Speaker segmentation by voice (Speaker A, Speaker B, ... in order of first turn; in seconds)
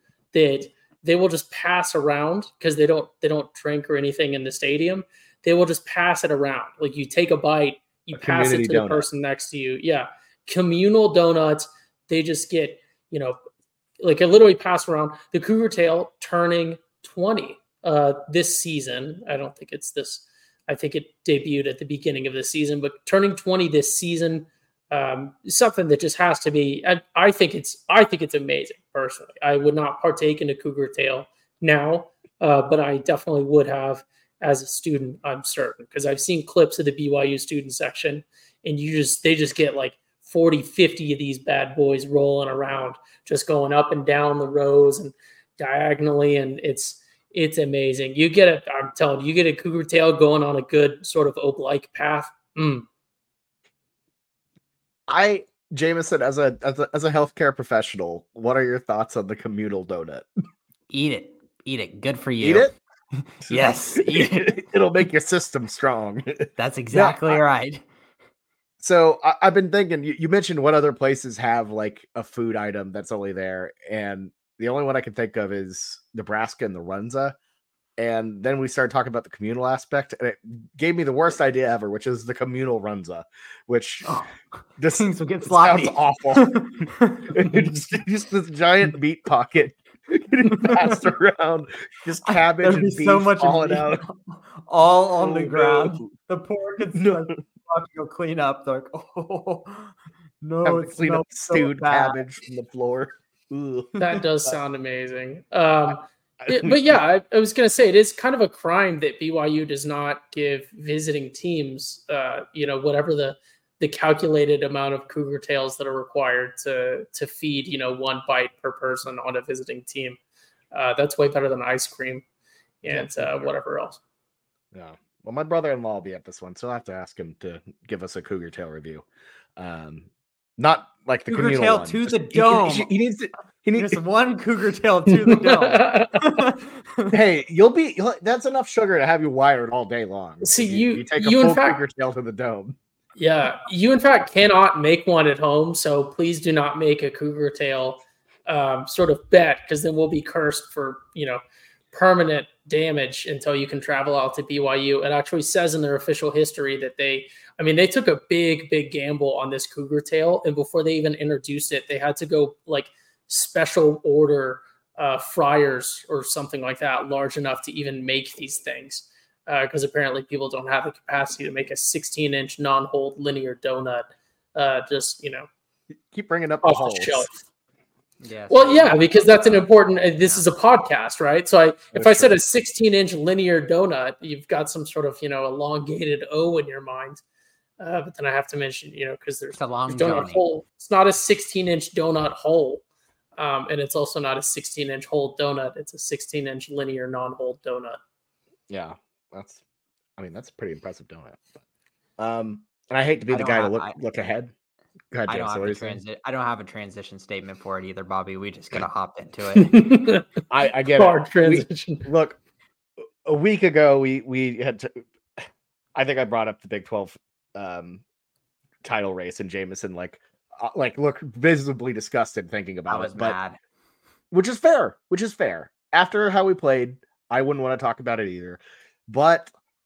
Speaker A: 0.3-13.4, 14.0-52.9, 104.0-120.2, 120.7-122.2, 122.8-124.0, 135.1-136.3, 140.4-141.8, 143.2-151.4, 151.9-175.5, 176.6-177.3, 178.5-187.2, 187.8-192.8, 193.4-198.0, 209.6-210.2, 210.9-212.1
Speaker B: 8.2-9.1, 55.1-60.3, 62.4-62.7, 63.5-67.4, 68.8-77.4, 78.0-84.1, 84.8-94.0, 95.2-96.1, 96.9-97.3, 100.6-104.5, 106.4-107.0, 122.9-123.5, 124.7-129.1, 129.6-134.0, 137.1-142.8, 176.1-177.3, 181.9-182.4, 198.7-199.6, 200.2-201.5, 202.2-204.5, 205.1-206.0, 210.5-212.4, 213.2-218.0, 218.8-223.4, 224.3-229.5
Speaker C: 60.9-62.7, 63.2-64.5, 66.6-67.8, 84.0-84.3, 84.9-87.8, 90.5-91.0, 92.2-102.2, 131.3-132.9, 133.7-137.1, 178.2-179.4, 189.6-190.4, 203.3-204.0, 205.3-209.8, 222.9-223.6